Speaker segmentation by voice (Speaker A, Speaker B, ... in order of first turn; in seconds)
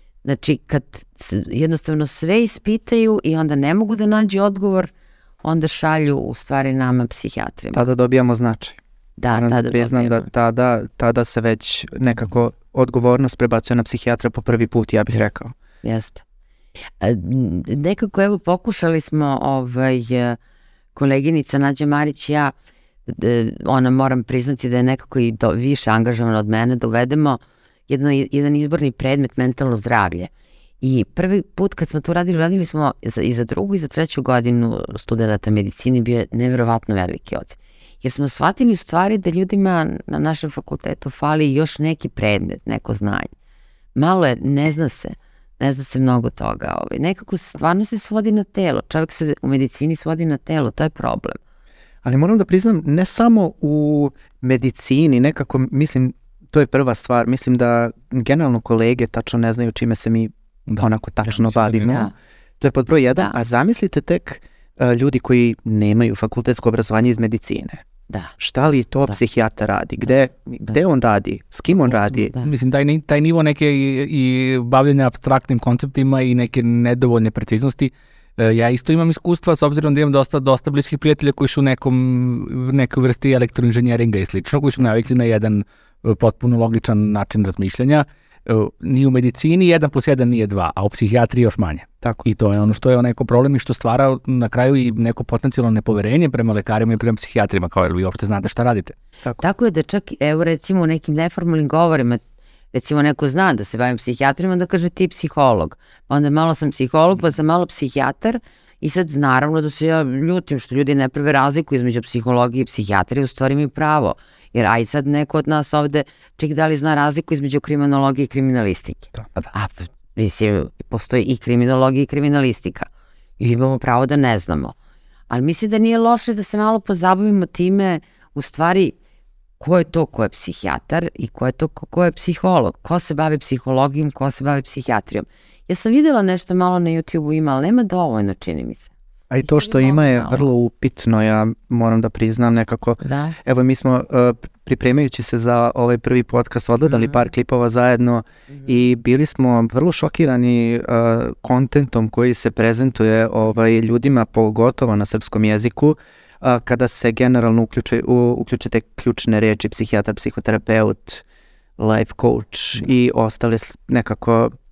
Speaker A: 0.2-4.9, 5.4-7.8, 9.2-10.3, 15.8-16.2, 17.0-20.4, 20.9-22.5, 23.1-43.3, 44.0-51.4, 61.9-62.1, 99.4-102.2, 102.7-122.9, 123.4-124.8, 125.3-128.9, 129.6-138.9, 139.4-140.5, 143.0-143.4
Speaker B: 7.7-8.8, 9.3-15.5, 52.0-67.8, 68.4-72.3, 139.3-161.2, 161.8-164.5
Speaker C: 60.7-62.0, 71.9-99.0